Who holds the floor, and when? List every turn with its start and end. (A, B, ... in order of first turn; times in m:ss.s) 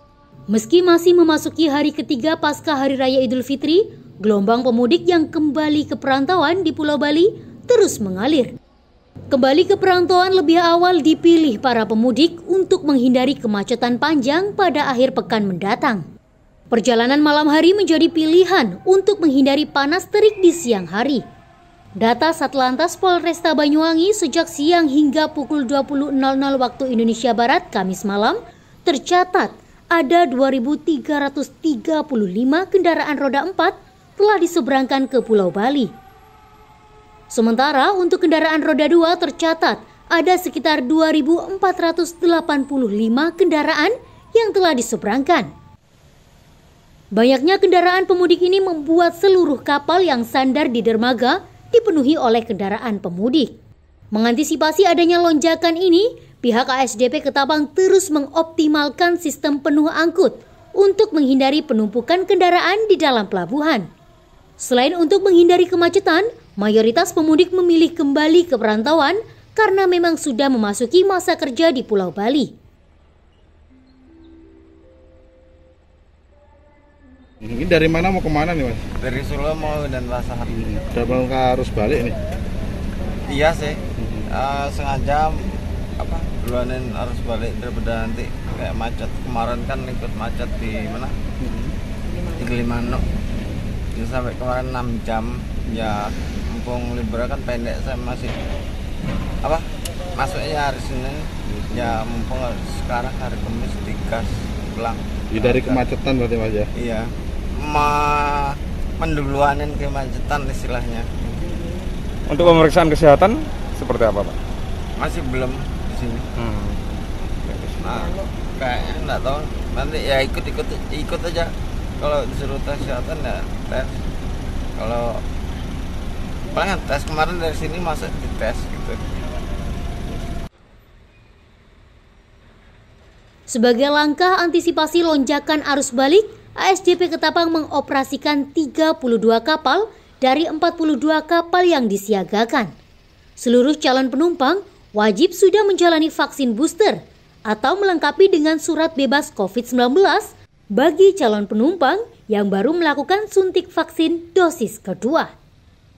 0:00.5-0:08.5 A
0:09.3-0:16.0 A
0:16.7-0:21.2 A
0:22.0-0:35.9 A
0:37.3-0:45.5 A
0:47.1-0:53.5 A
0:54.1-1:03.9 A
1:04.6-1:12.5 A
1:17.4-1:18.9 B
1:19.0-1:20.5 C
1:20.5-1:22.2 B
1:23.3-1:31.1 C
1:24.0-1:24.3 B
1:31.4-1:31.7 B
1:32.3-1:33.0 C
1:33.9-1:38.3 C
1:39.4-1:45.9 C
1:41.5-1:42.0 B
1:45.3-1:46.7 B
1:46.8-1:51.4 C
1:52.3-1:54.4 D
1:55.0-1:56.3 C
1:56.4-1:58.0 D
1:57.8-2:04.0 C
2:04.8-2:05.2 C
2:06.5-2:09.0 C
2:13.5-2:22.7 A
2:23.4-2:35.3 A